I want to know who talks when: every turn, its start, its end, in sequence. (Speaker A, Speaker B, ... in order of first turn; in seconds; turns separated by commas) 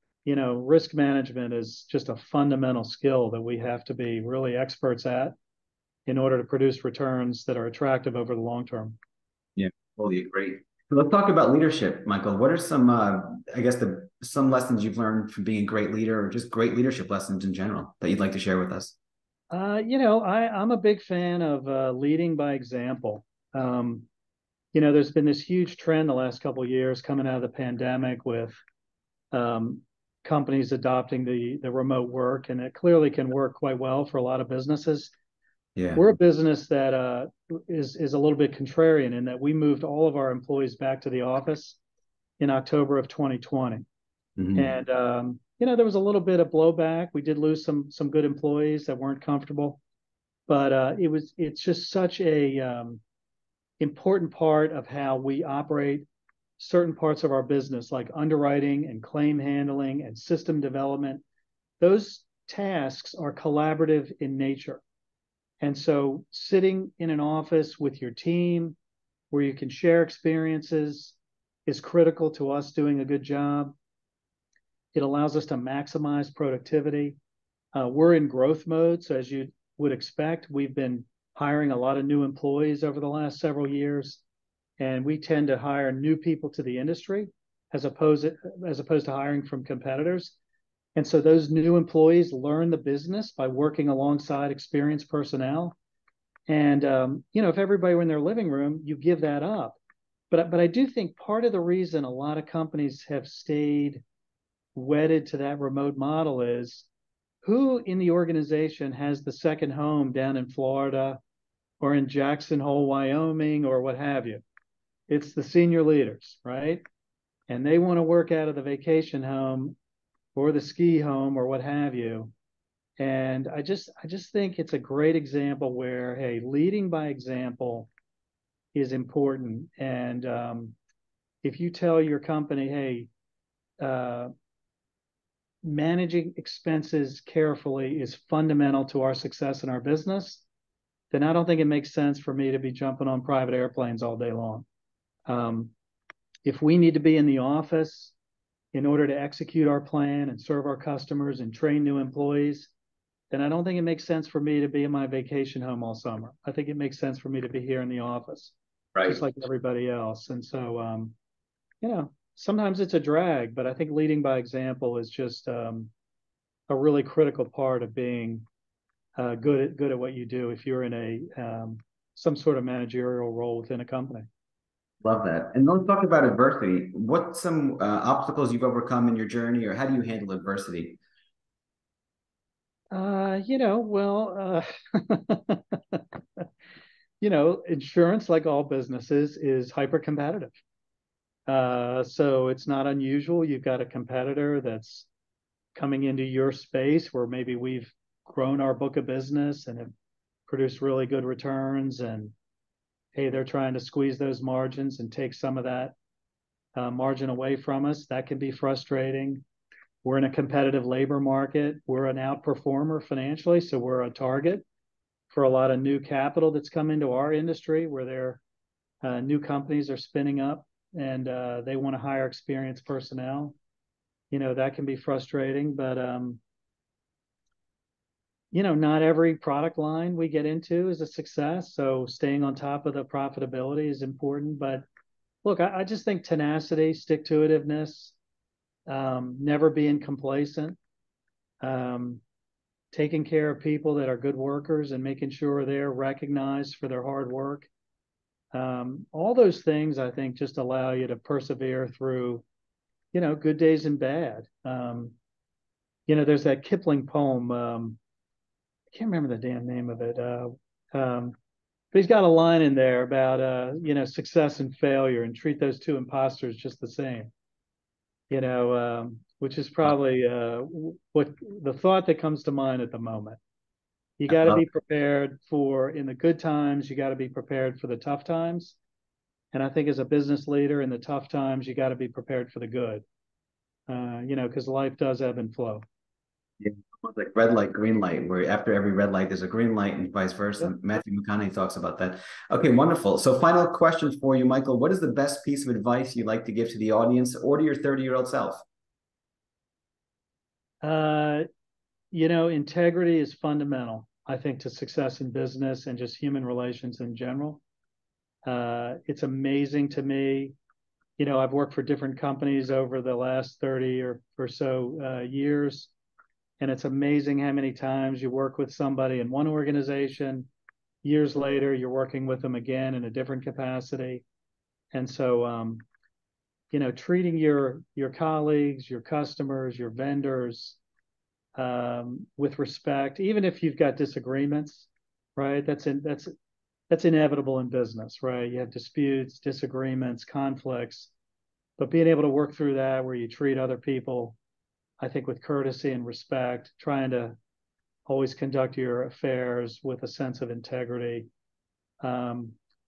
Speaker A: 0.2-5.3, Speaker A: 6.1-9.0, Speaker B: 9.6-18.9, Speaker A: 19.5-24.1, Speaker A: 24.7-28.6, Speaker A: 29.3-35.1, Speaker B: 35.8-36.1, Speaker A: 36.0-41.8, Speaker A: 42.4-43.8, Speaker B: 44.4-44.8, Speaker A: 44.5-49.8, Speaker A: 50.5-53.0, Speaker A: 53.8-56.1, Speaker A: 56.6-61.2, Speaker A: 61.8-64.8, Speaker A: 65.6-68.8, Speaker A: 69.3-73.8, Speaker A: 74.9-77.2, Speaker A: 77.7-84.2, Speaker A: 84.8-90.3, Speaker A: 90.9-95.8, Speaker A: 96.5-99.8, Speaker A: 100.3-104.0, Speaker A: 104.7-106.9, Speaker A: 107.4-111.2, Speaker A: 111.8-114.4, Speaker A: 115.1-116.8, Speaker A: 117.5-119.8, Speaker A: 120.3-122.3, Speaker A: 123.0-127.9, Speaker A: 128.7-130.8, Speaker A: 131.4-133.1, Speaker A: 133.8-134.3, Speaker A: 135.6-140.4, Speaker A: 141.1-144.6, Speaker A: 145.3-145.7, Speaker A: 146.4-148.1, Speaker A: 148.7-152.7, Speaker A: 153.3-161.1, Speaker B: 158.9-159.2, Speaker A: 161.8-165.9, Speaker A: 166.7-168.4, Speaker A: 169.2-174.3, Speaker B: 175.0-181.0, Speaker A: 182.9-186.5, Speaker A: 187.2-190.6, Speaker A: 191.5-195.1, Speaker A: 195.7-199.9, Speaker A: 200.5-202.3, Speaker A: 203.1-205.9, Speaker A: 206.7-209.4, Speaker A: 210.0-214.6, Speaker A: 215.3-218.4, Speaker A: 219.0-223.6, Speaker A: 224.3-226.4, Speaker A: 228.5-234.8, Speaker A: 235.4-238.1, Speaker A: 238.9-240.8, Speaker A: 241.6-242.2, Speaker A: 242.9-247.7, Speaker A: 248.5-252.4, Speaker A: 253.1-255.1, Speaker A: 256.1-258.0, Speaker A: 258.9-261.4, Speaker A: 261.9-267.3, Speaker A: 268.3-273.4, Speaker A: 274.2-278.8, Speaker B: 274.3-274.7, Speaker A: 279.5-283.0, Speaker A: 283.9-285.8, Speaker B: 286.6-298.6, Speaker A: 300.8-301.4, Speaker A: 302.1-307.6, Speaker A: 308.4-310.6, Speaker A: 311.2-315.9, Speaker A: 316.6-320.5, Speaker A: 321.0-324.2, Speaker A: 324.9-325.8, Speaker A: 326.7-330.8, Speaker A: 331.6-336.3, Speaker A: 336.9-341.1, Speaker A: 341.8-344.4, Speaker A: 345.0-347.4, Speaker A: 348.1-351.3, Speaker A: 352.0-352.6